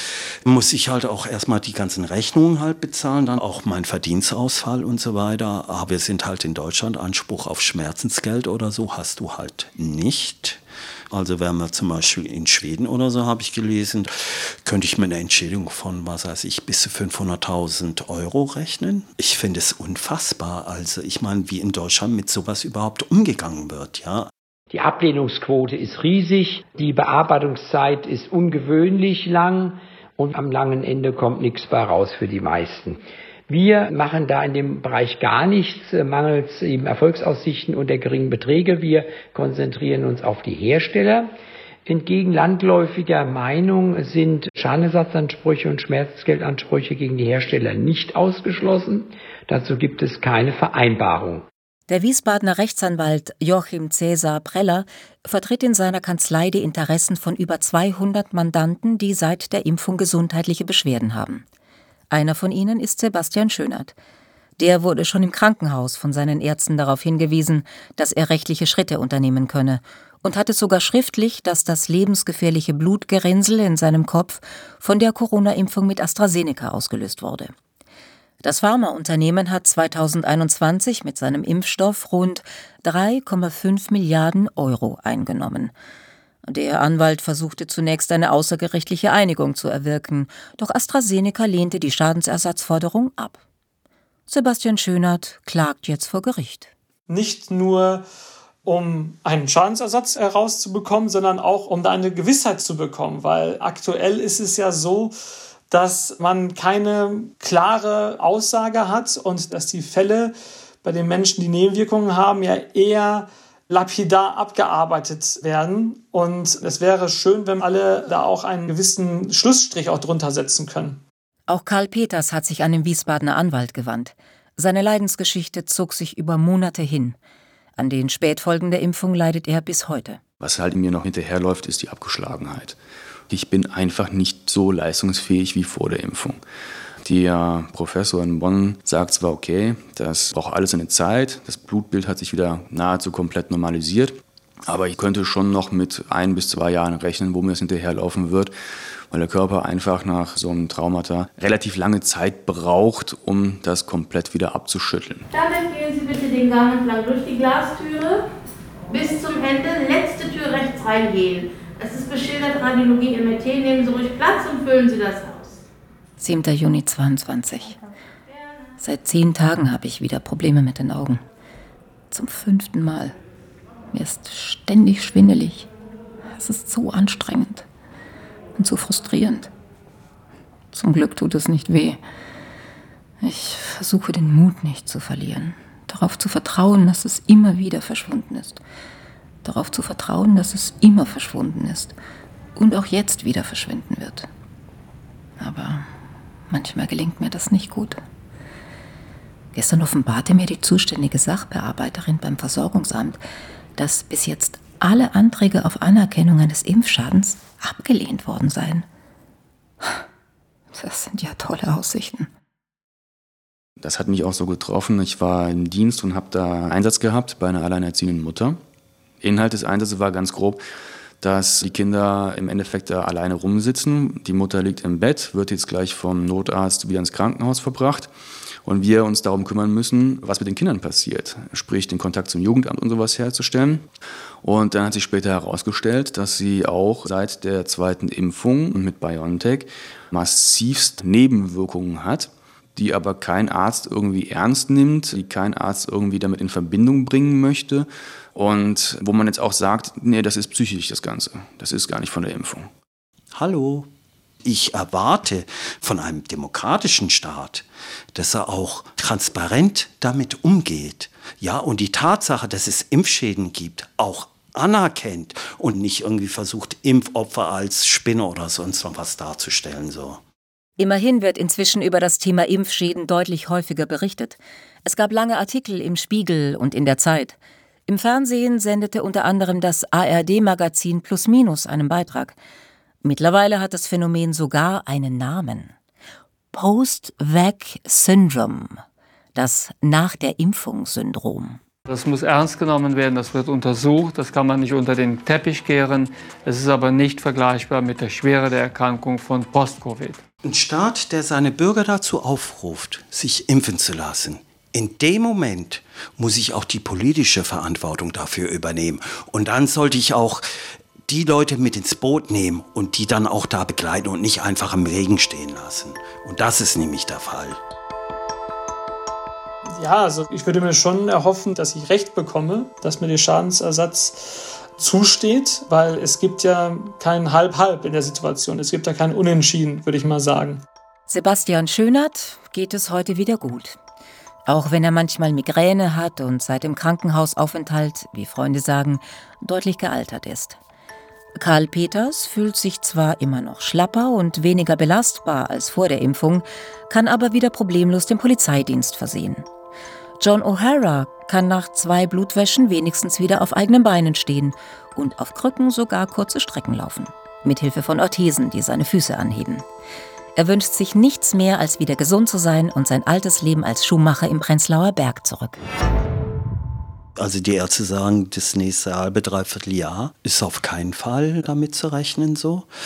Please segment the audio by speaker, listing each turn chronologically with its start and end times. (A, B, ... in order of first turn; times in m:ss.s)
0:00.4-0:24.3 A
0:24.7-0:41.3 B
0:41.8-0:51.4 B
0:51.9-1:01.4 C
1:02.1-1:03.9 C
1:04.6-1:17.5 C
1:18.4-1:25.7 C
1:26.4-1:33.4 C
1:34.3-1:36.7 C
1:37.1-1:38.0 D
1:38.6-1:45.1 D
1:45.7-1:50.3 D
1:50.8-2:01.0 D
2:01.5-2:07.2 C
2:07.8-2:10.2 C
2:10.4-2:12.8 E
2:13.3-2:16.4 E
2:17.0-2:24.1 E
2:24.6-2:28.5 E
2:29.1-2:35.3 E
2:35.3-2:38.2 F
2:38.9-2:45.6 F
2:46.2-2:47.8 C
2:48.8-2:51.2 C
2:52.1-2:53.1 C
2:53.9-2:55.7 C
2:56.3-2:57.6 C
2:58.6-2:59.5 C
3:00.7-3:02.0 C
3:03.2-3:08.6 C
3:09.4-3:11.9 C
3:12.6-3:14.3 C
3:15.4-3:15.9 C
3:16.5-3:18.0 C
3:19.5-3:23.2 C
3:23.8-3:28.8 C
3:30.7-3:32.3 C
3:33.8-3:38.6 E
3:39.2-3:40.6 E
3:41.2-3:48.1 E
3:48.6-3:53.8 E
3:54.4-4:12.7 E
4:13.3-4:13.9 A
4:14.4-4:30.2 A
4:30.8-4:42.4 C
4:43.0-4:45.7 C
4:46.5-4:48.8 C
4:49.3-4:51.6 C
4:51.9-5:00.2 G
5:00.4-5:10.4 A
5:11.1-5:17.6 A
5:19.8-5:30.6 D
5:31.1-5:33.8 C
5:34.5-5:40.6 C
5:41.4-5:49.4 C
5:50.2-5:59.6 C
6:00.4-6:05.6 C
6:07.2-6:12.7 A